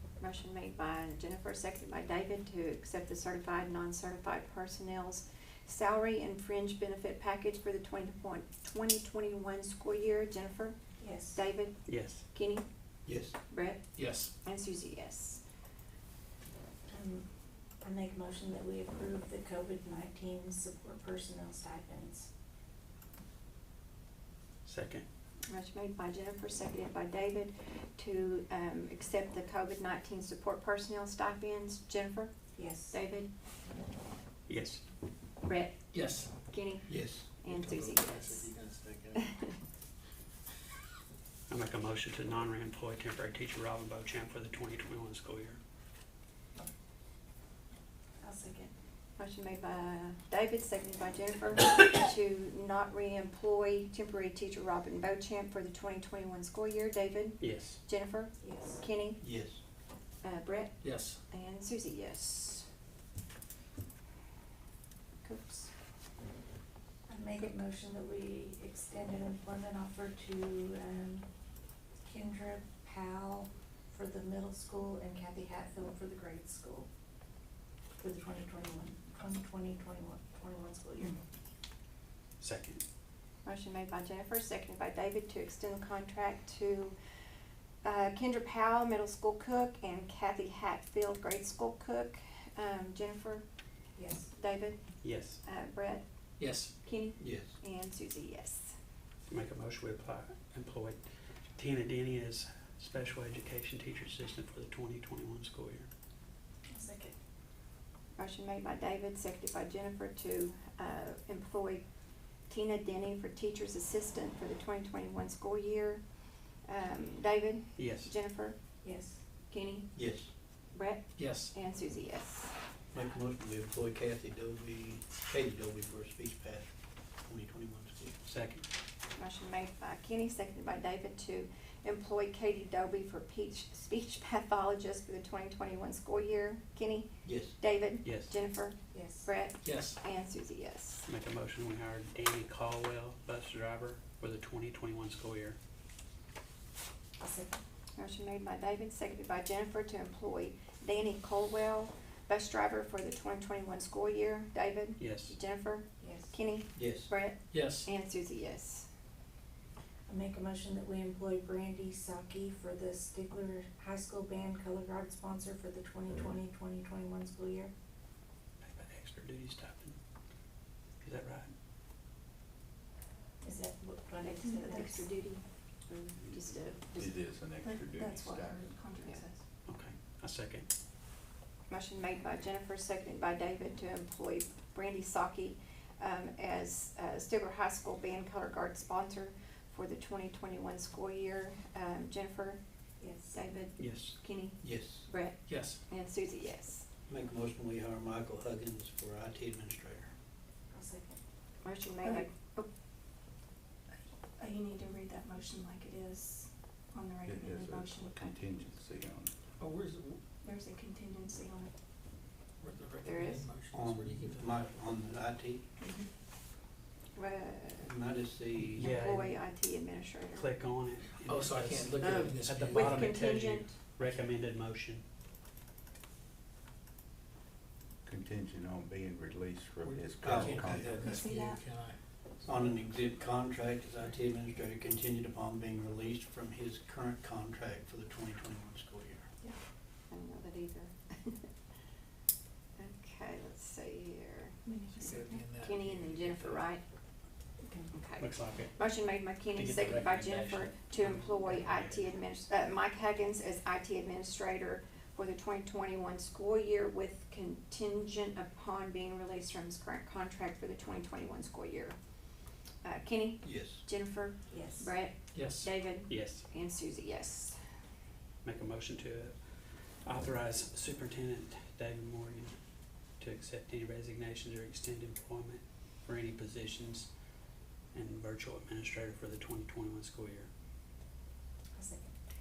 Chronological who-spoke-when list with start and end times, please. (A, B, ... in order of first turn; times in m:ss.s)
0:00.2-0:11.8 A
0:11.0-0:11.4 B
0:11.8-0:12.2 C
0:12.3-0:12.6 A
0:13.0-0:13.4 D
0:13.5-0:15.4 A
0:13.9-0:14.3 E
0:16.9-0:17.2 B
0:17.8-0:22.3 B
0:24.6-0:25.0 C
0:25.5-0:33.3 A
0:32.6-0:33.0 B
0:34.5-0:34.8 C
0:35.4-0:38.5 A
0:35.9-0:36.3 E
0:36.9-0:37.3 D
0:37.4-0:39.4 E
0:41.5-0:45.6 C
0:48.2-0:48.7 B
0:49.2-0:59.2 A
0:57.4-0:57.8 C
0:58.4-0:58.8 B
0:59.2-0:59.6 D
1:00.2-1:02.6 A
1:00.8-1:01.2 E
1:05.2-1:05.7 A
1:07.1-1:11.2 B
1:12.0-1:16.9 B
1:18.0-1:21.2 B
1:22.4-1:22.8 C
1:23.4-1:26.9 A
1:27.8-1:33.4 A
1:34.0-1:34.3 B
1:34.3-1:34.9 A
1:35.0-1:35.4 C
1:35.4-1:36.0 A
1:36.4-1:36.7 E
1:36.8-1:38.7 A
1:37.2-1:37.5 D
1:39.2-1:41.0 C
1:41.6-1:45.9 C
1:46.7-1:47.1 B
1:48.2-1:51.8 A
1:52.5-1:56.0 A
1:56.6-1:58.6 A
1:57.8-1:58.1 C
1:58.8-1:59.2 B
1:59.5-2:00.1 A
1:59.9-2:00.3 D
2:00.7-2:02.6 A
2:01.2-2:01.5 E
2:02.9-2:06.7 D
2:07.2-2:08.2 D
2:08.2-2:08.6 C
2:09.2-2:21.1 A
2:17.2-2:17.6 D
2:18.0-2:18.3 C
2:18.9-2:19.3 B
2:19.6-2:20.0 E
2:21.1-2:25.6 C
2:27.2-2:27.6 B
2:28.0-2:38.9 A
2:35.0-2:35.4 C
2:36.0-2:36.3 B
2:36.7-2:37.1 D
2:37.5-2:37.9 E
2:40.1-2:47.7 B
2:46.1-2:46.4 F
2:48.6-2:50.0 C
2:51.0-2:51.5 C
2:53.4-2:55.0 B
2:54.2-2:57.1 A
2:54.5-2:55.0 G
2:56.9-2:58.7 F
2:57.6-2:59.4 G
2:59.6-3:00.7 C
3:01.7-3:12.6 A
3:13.0-3:13.4 B
3:13.3-3:16.8 A
3:13.8-3:14.2 C
3:14.6-3:15.1 D
3:15.4-3:15.8 E
3:17.1-3:20.1 D
3:20.7-3:21.2 B
3:21.6-3:22.7 A
3:22.0-3:22.3 G
3:24.4-3:28.4 G
3:27.2-3:29.3 F
3:29.6-3:30.2 E
3:30.4-3:31.7 G
3:32.6-3:34.8 E
3:33.0-3:33.4 A
3:33.7-3:35.6 D
3:35.8-3:36.1 G
3:37.2-3:37.9 A
3:37.8-3:39.0 D
3:38.6-3:39.4 C
3:38.8-3:40.5 A
3:40.3-3:45.0 C
3:41.2-3:43.1 E
3:42.0-3:43.8 A
3:48.0-3:51.1 F
3:49.8-3:52.0 E
3:50.2-3:51.2 D
3:51.0-3:51.6 G
3:52.4-3:59.3 D
4:00.1-4:01.4 A
4:02.8-4:04.6 A
4:04.6-4:05.5 G
4:05.0-4:06.7 E
4:05.6-4:06.8 A
4:07.9-4:22.0 A
4:08.2-4:08.8 C
4:09.5-4:12.1 C
4:22.8-4:27.6 A
4:23.4-4:23.8 D
4:24.5-4:24.9 B
4:25.3-4:25.7 E
4:26.1-4:26.5 C
4:28.4-4:32.6 C
4:33.2-4:37.1 C
4:37.9-4:40.5 C
4:41.8-4:42.1 B